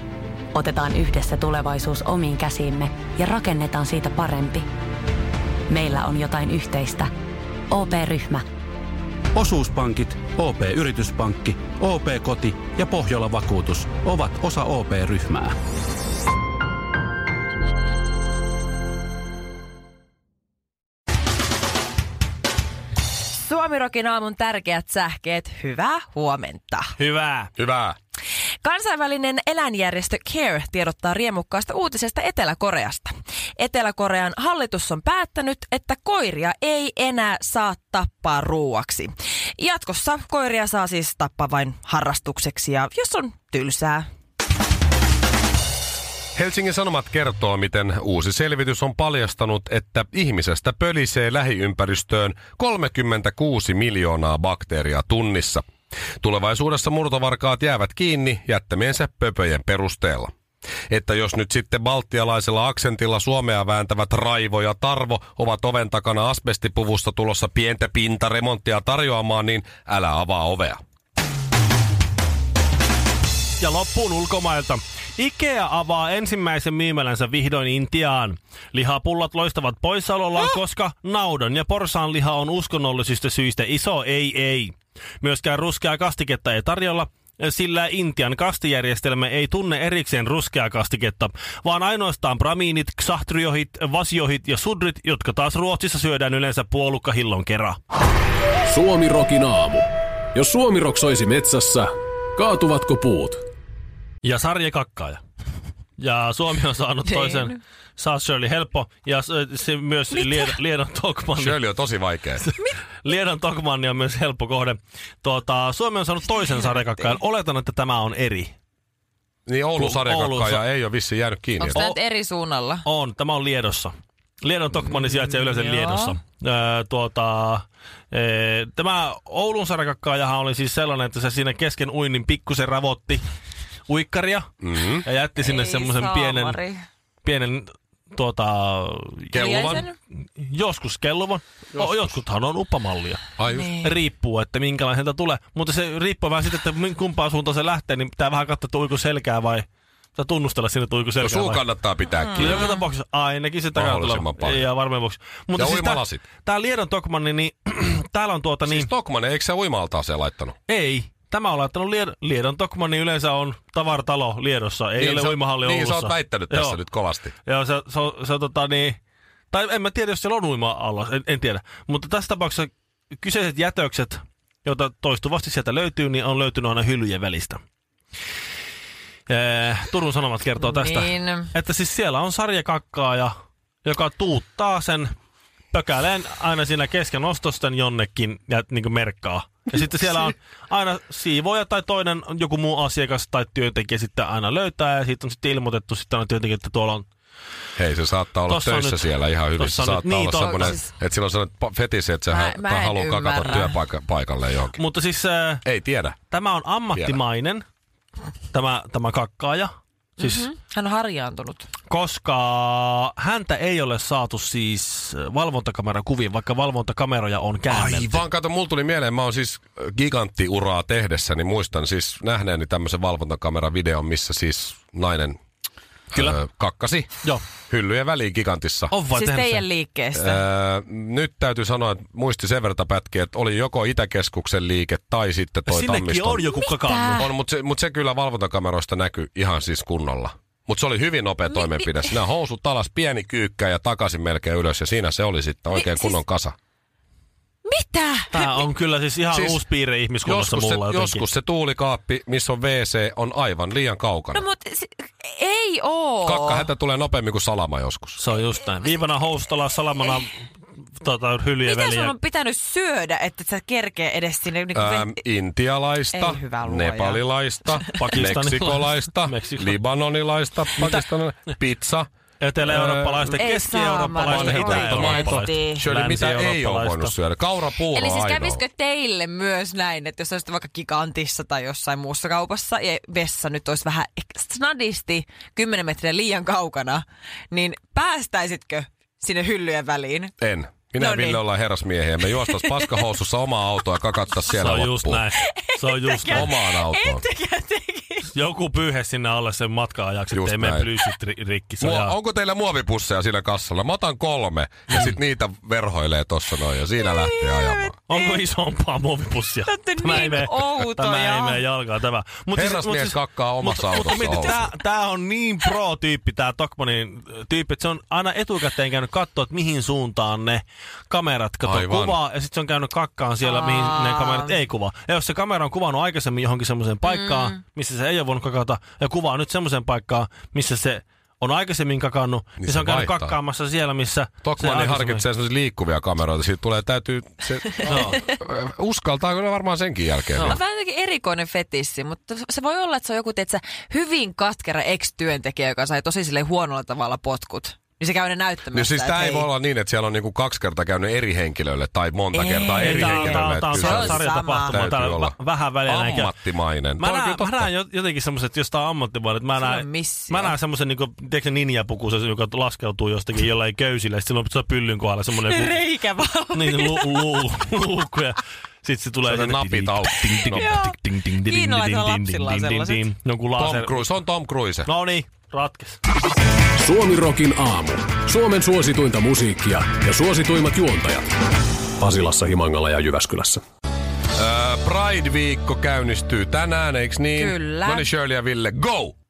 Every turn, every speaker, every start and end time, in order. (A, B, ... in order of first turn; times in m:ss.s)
0:00.5-0:04.7 A
0:05.7-0:07.1 A
0:07.7-0:08.5 A
0:09.3-0:15.6 B
0:23.3-0:27.0 C
0:27.0-0:27.5 D
0:27.6-0:28.0 E
0:28.6-0:44.1 C
0:46.4-0:55.7 E
0:56.2-1:00.3 E
1:00.9-1:10.8 E
1:13.6-1:37.8 D
1:38.7-1:43.4 F
1:44.2-1:45.2 D
1:46.0-1:51.6 D
1:47.1-1:47.6 C
1:50.2-1:50.5 C
1:51.4-1:52.4 E
1:53.0-1:58.5 D
1:59.5-2:01.8 E
1:59.8-2:00.6 D
2:01.6-2:02.8 C
2:02.8-2:13.2 D
2:04.8-2:06.2 C
2:13.9-2:14.5 D
2:14.6-2:15.1 E
2:15.0-2:16.6 D
2:15.4-2:16.9 C
2:17.2-2:19.8 D
2:19.3-2:19.8 E
2:19.3-2:20.0 C
2:20.4-2:31.6 D
2:21.8-2:22.2 E
2:23.4-2:23.7 E
2:23.5-2:23.9 C
2:31.2-2:32.7 E
2:32.2-2:32.8 C
2:32.4-2:38.9 D
2:33.7-2:34.7 E
2:35.6-2:36.2 E
2:38.7-2:40.6 E
2:40.7-2:46.8 D
2:45.0-2:47.3 E
2:47.5-2:49.0 D
2:49.5-2:57.6 D
2:59.3-3:03.3 D
3:00.6-3:01.5 C
3:03.8-3:05.1 D
3:05.7-3:17.1 D
3:17.8-3:24.8 E
3:18.5-3:20.8 D
3:20.4-3:20.9 C
3:22.3-3:23.8 C
3:24.8-3:25.6 D
3:25.6-3:26.2 E
3:26.3-3:27.6 D
3:26.9-3:27.2 E
3:28.5-3:30.5 D
3:30.2-3:31.7 C
3:31.9-3:38.2 D
3:37.7-3:45.4 E
3:46.1-3:47.2 E
3:47.7-3:48.9 E
3:48.9-3:49.6 D
3:49.1-3:50.4 C
3:50.2-3:56.5 E
3:55.7-3:57.2 D
3:56.5-3:57.3 C
3:57.2-4:06.6 E
4:01.5-4:02.1 C
4:05.7-4:06.2 C
4:07.6-4:08.6 C
4:08.3-4:11.2 D
4:09.3-4:09.6 E
4:10.2-4:14.4 E
4:14.3-4:16.7 C
4:16.2-4:18.2 E
4:18.2-4:20.4 D
4:21.0-4:22.1 D
4:21.6-4:25.2 C
4:24.8-4:32.1 E
4:26.1-4:28.1 C
4:28.0-4:29.8 D
4:32.4-4:37.1 D
4:32.6-4:33.4 E
4:33.4-4:35.8 C
4:34.2-4:38.6 E
4:37.9-4:50.4 C
4:50.4-4:55.2 E
4:51.0-4:51.4 C
4:52.4-4:53.1 C
4:54.5-4:56.5 D
4:55.4-4:58.3 C
4:56.3-4:57.2 E
4:58.3-5:02.1 D
5:00.3-5:00.9 E
5:01.8-5:08.0 E
5:07.0-5:08.4 C
5:08.1-5:35.2 D
5:09.7-5:11.6 C
5:12.5-5:14.7 E
5:14.2-5:14.4 C
5:21.6-5:22.2 E
5:23.4-5:24.6 C
5:27.1-5:27.6 C
5:32.6-5:33.4 E
5:34.4-5:40.6 E
5:37.8-5:38.2 C
5:37.9-5:38.2 D
5:40.4-5:49.5 C
5:48.7-5:57.7 E
5:52.3-5:54.8 C
5:52.8-5:56.3 D
5:57.0-6:05.8 D
5:59.6-6:00.6 C
6:05.5-6:07.5 C
6:06.5-6:14.0 D
6:09.2-6:10.7 E
6:10.4-6:13.1 C
6:13.6-6:14.9 E
6:14.9-6:16.0 D
6:16.8-6:21.3 F
6:22.0-6:23.6 F
6:24.3-6:29.2 E
6:27.4-6:28.1 C